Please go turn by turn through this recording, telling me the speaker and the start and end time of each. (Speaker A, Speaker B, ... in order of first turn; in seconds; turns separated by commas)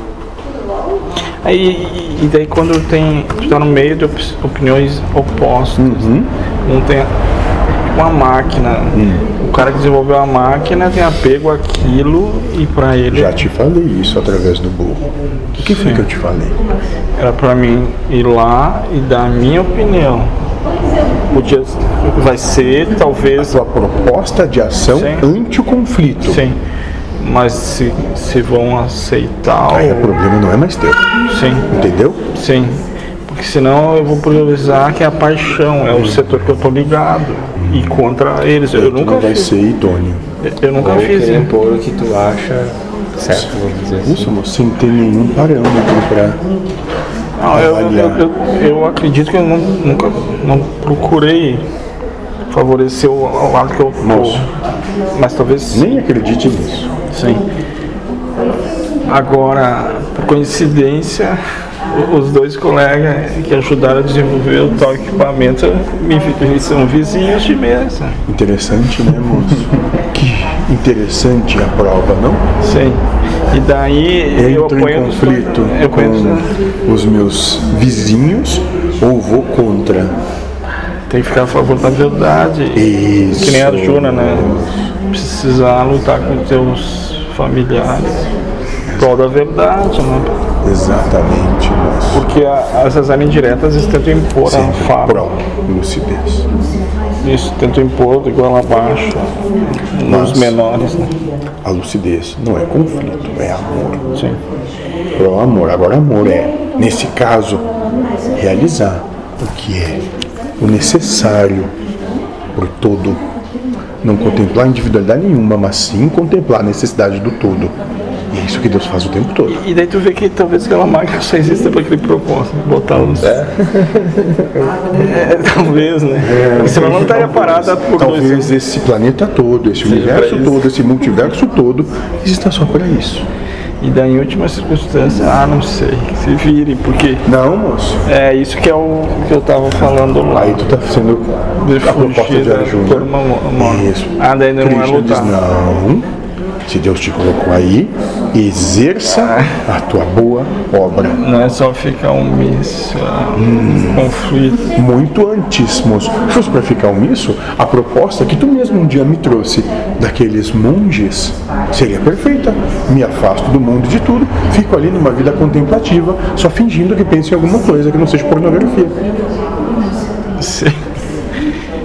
Speaker A: 1.4-6.1, Speaker B: 5.8-6.3, Speaker A: 6.6-7.1, Speaker A: 7.9-13.4, Speaker B: 8.9-9.2, Speaker B: 13.1-16.6, Speaker A: 15.6-16.1, Speaker A: 17.2-20.3, Speaker A: 21.3-23.6, Speaker B: 23.4-26.4, Speaker A: 24.9-25.3, Speaker A: 26.2-26.6, Speaker A: 27.2-30.2, Speaker B: 29.7-31.0, Speaker A: 31.3-31.7, Speaker B: 31.7-32.2, Speaker A: 32.3-39.5, Speaker B: 37.6-38.0, Speaker B: 38.7-40.2, Speaker A: 40.4-41.5, Speaker C: 40.8-44.3, Speaker B: 44.0-46.4, Speaker A: 47.4-51.6, Speaker B: 47.5-48.3, Speaker A: 52.5-54.5, Speaker B: 54.0-54.5, Speaker A: 55.1-55.9, Speaker B: 55.7-56.9, Speaker A: 57.1-57.4, Speaker A: 59.1-61.4, Speaker A: 61.9-68.2, Speaker B: 68.3-72.5, Speaker A: 72.6-76.5, Speaker B: 74.3-80.2, Speaker A: 81.1-84.5, Speaker B: 82.8-84.9, Speaker A: 85.1-88.3, Speaker B: 88.9-89.2, Speaker A: 89.0-90.3, Speaker B: 90.6-92.3, Speaker A: 92.1-95.3, Speaker B: 94.5-96.5, Speaker A: 97.2-101.1, Speaker B: 100.0-100.6, Speaker B: 101.6-104.1, Speaker A: 104.2-104.4, Speaker B: 105.2-107.7, Speaker B: 108.3-110.1, Speaker B: 110.6-111.7, Speaker B: 112.5-113.2, Speaker B: 114.0-117.7, Speaker B: 118.3-119.6, Speaker A: 119.5-123.4, Speaker B: 123.0-123.3, Speaker C: 123.2-124.8, Speaker A: 124.9-128.5, Speaker B: 126.2-133.3, Speaker A: 129.8-130.7, Speaker A: 133.8-137.2, Speaker B: 137.2-138.0, Speaker A: 138.0-140.6, Speaker B: 140.3-146.1, Speaker A: 141.6-145.4, Speaker B: 146.6-151.2, Speaker A: 149.1-149.6, Speaker A: 151.2-154.7, Speaker B: 153.3-154.1, Speaker B: 154.7-168.9, Speaker A: 170.4-170.8